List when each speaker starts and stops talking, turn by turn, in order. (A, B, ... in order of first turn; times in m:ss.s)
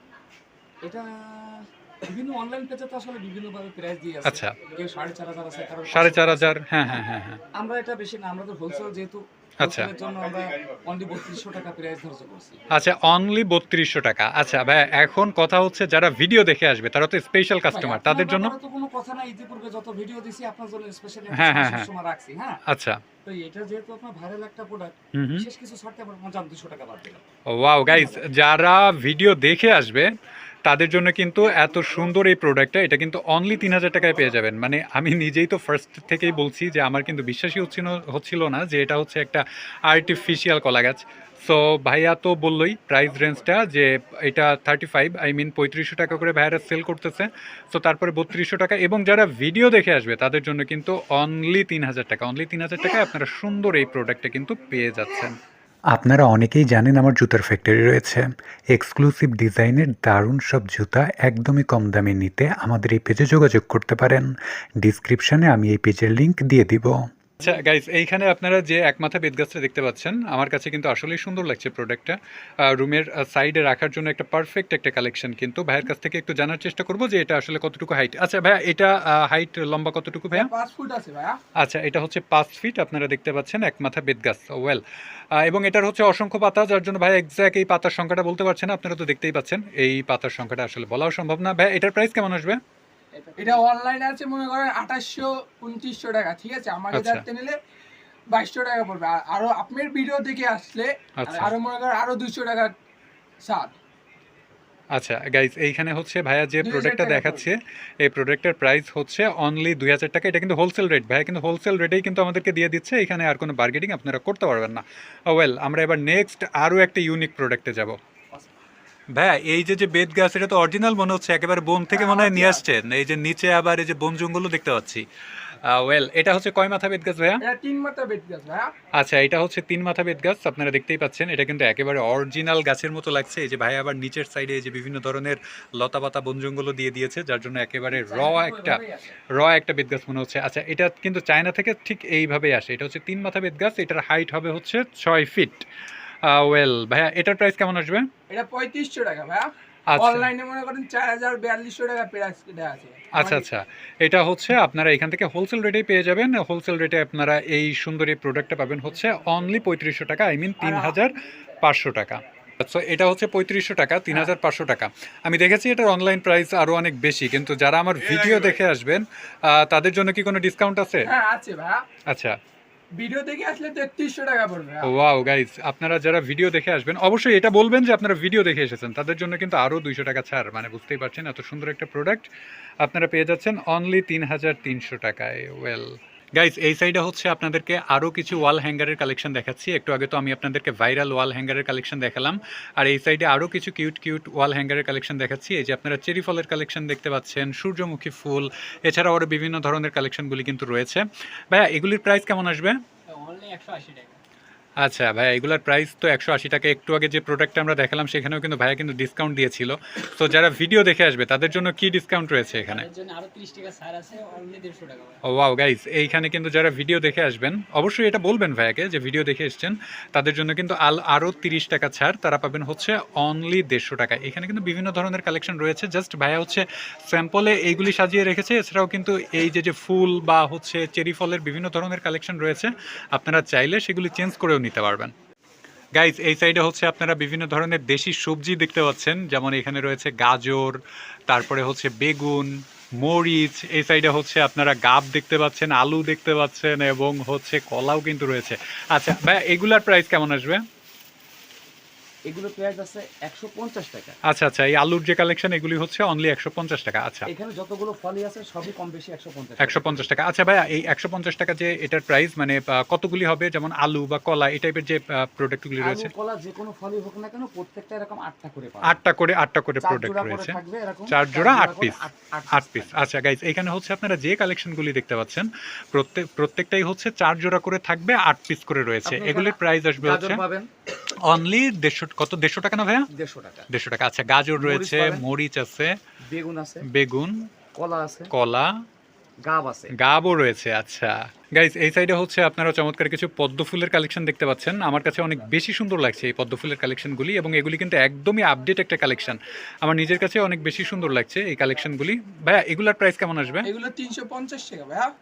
0:00.8-0:07.0 A
0:04.2-0:04.6 B
0:05.9-0:07.4 B
0:07.5-0:12.6 A
0:09.6-0:09.9 B
0:12.7-0:18.5 B
0:17.7-0:22.6 A
0:21.3-0:21.9 B
0:22.7-0:23.0 B
0:23.2-0:27.2 A
0:25.1-0:25.5 B
0:27.5-0:55.4 B
0:27.9-0:28.2 A
0:55.9-0:56.9 C
0:56.7-0:58.2 B
0:58.7-1:04.2 B
1:01.6-1:02.8 C
1:04.8-1:05.8 B
1:05.2-1:07.0 C
1:07.4-1:20.5 B
1:20.3-1:21.4 D
1:21.6-1:24.8 B
1:25.3-1:32.6 B
1:33.2-1:33.7 A
1:33.4-1:37.6 D
1:36.9-1:37.2 B
1:38.3-1:42.7 D
1:41.2-1:41.5 B
1:41.3-1:41.5 A
1:43.4-1:43.8 D
1:44.9-1:58.0 B
1:46.6-1:47.5 D
1:59.1-2:05.0 B
2:01.9-2:02.6 D
2:05.6-2:07.4 B
2:07.4-2:08.7 D
2:08.9-2:18.8 B
2:17.9-2:19.2 A
2:19.3-2:25.6 B
2:26.2-2:28.0 B
2:28.3-2:33.4 D
2:29.9-2:30.3 B
2:33.1-2:51.1 B
2:40.6-2:41.0 D
2:51.0-2:51.8 D
2:52.1-2:52.4 B
2:52.9-2:54.9 D
2:54.8-3:02.3 B
3:02.8-3:22.8 B
3:23.1-3:24.1 E
3:24.8-3:32.9 B
3:33.0-3:35.1 E
3:35.2-3:55.1 B
3:55.9-4:10.6 B
4:12.3-4:14.2 A
4:14.2-4:17.3 B
4:17.3-4:20.1 A
4:19.6-4:26.1 B
4:25.8-4:29.0 A
4:28.8-4:40.4 B
4:29.8-4:33.0 A
4:39.0-4:40.7 A
4:41.1-4:43.1 B
4:43.1-4:43.7 A
4:43.7-4:46.0 B
4:44.6-4:45.2 A
4:46.3-4:46.8 A
4:46.9-4:47.5 B
4:47.7-4:48.3 A
4:48.3-4:48.7 B
4:49.4-4:49.9 A
4:49.9-5:03.7 B
5:03.6-5:05.1 D